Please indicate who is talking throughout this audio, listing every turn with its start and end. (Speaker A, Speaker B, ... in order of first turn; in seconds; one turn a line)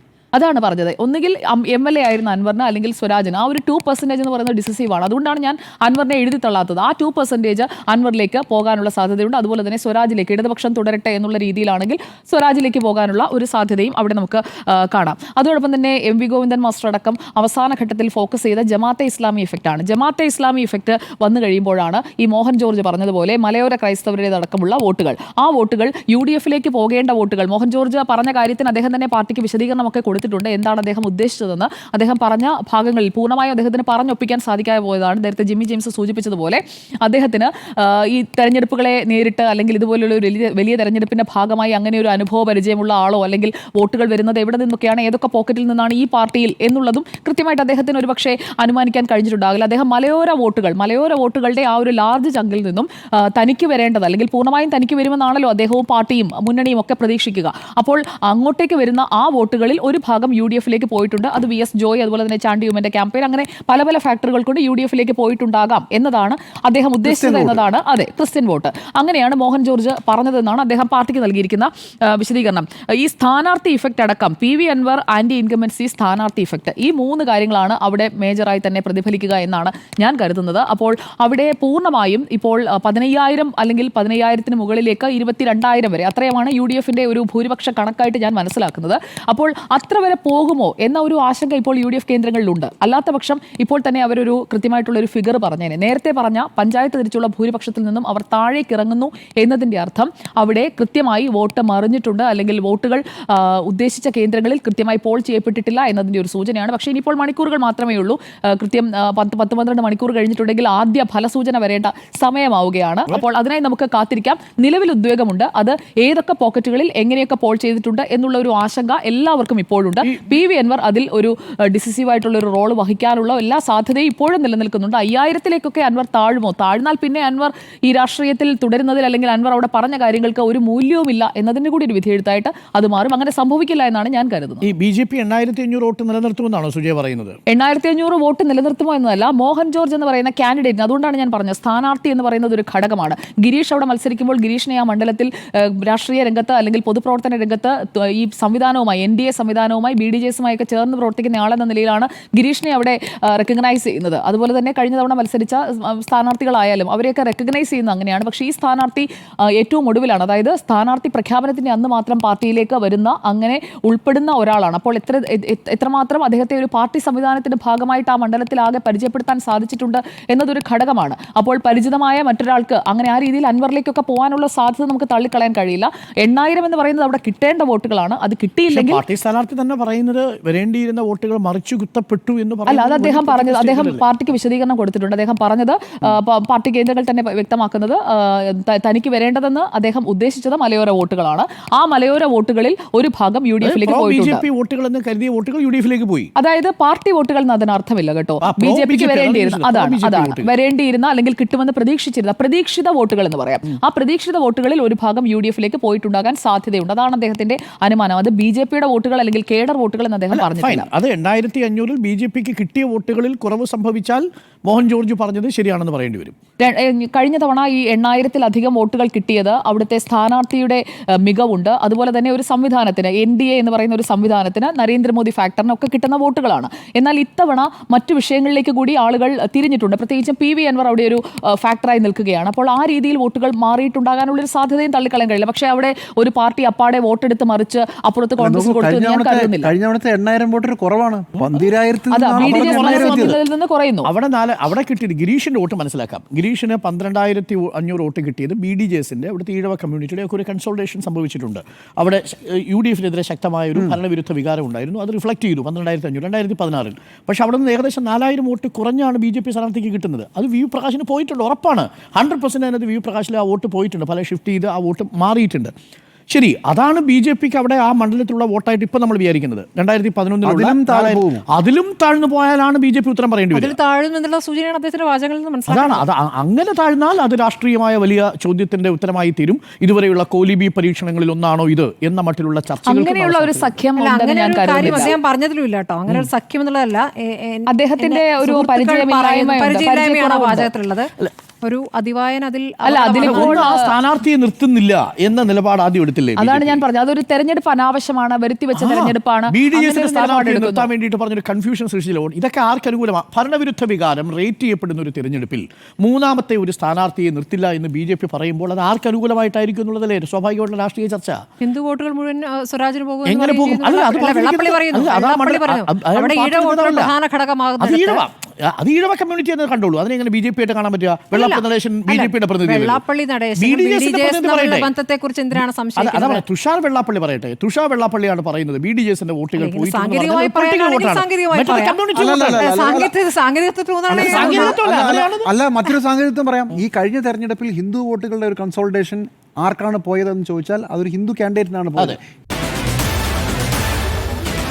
Speaker A: 0.3-134.7
Speaker B: 67.0-67.6
Speaker C: 120.0-120.3
Speaker C: 134.6-137.4
Speaker A: 137.5-179.0
Speaker C: 178.7-184.0
Speaker A: 182.7-194.4
Speaker C: 193.6-196.3
Speaker A: 196.4-210.9
Speaker C: 198.4-200.5
Speaker C: 210.3-216.3
Speaker A: 216.6-239.7
Speaker B: 238.4-243.4
Speaker A: 242.1-244.1
Speaker C: 242.4-243.4
Speaker C: 244.0-265.7
Speaker C: 266.3-273.8
Speaker B: 270.4-271.4
Speaker D: 273.5-276.1
Speaker C: 275.7-283.7
Speaker A: 282.9-285.2
Speaker D: 283.9-291.1
Speaker C: 284.8-285.1
Speaker A: 287.7-290.7
Speaker D: 291.6-293.9
Speaker A: 292.8-293.9
Speaker C: 293.2-296.8
Speaker A: 296.4-300.9
Speaker C: 298.7-311.4
Speaker D: 311.6-318.2
Speaker C: 313.2-317.1
Speaker C: 317.8-323.0
Speaker D: 321.3-326.4
Speaker C: 323.6-324.9
Speaker C: 325.6-333.0
Speaker D: 329.6-334.8
Speaker B: 332.1-333.1
Speaker B: 334.1-342.2
Speaker C: 334.2-335.5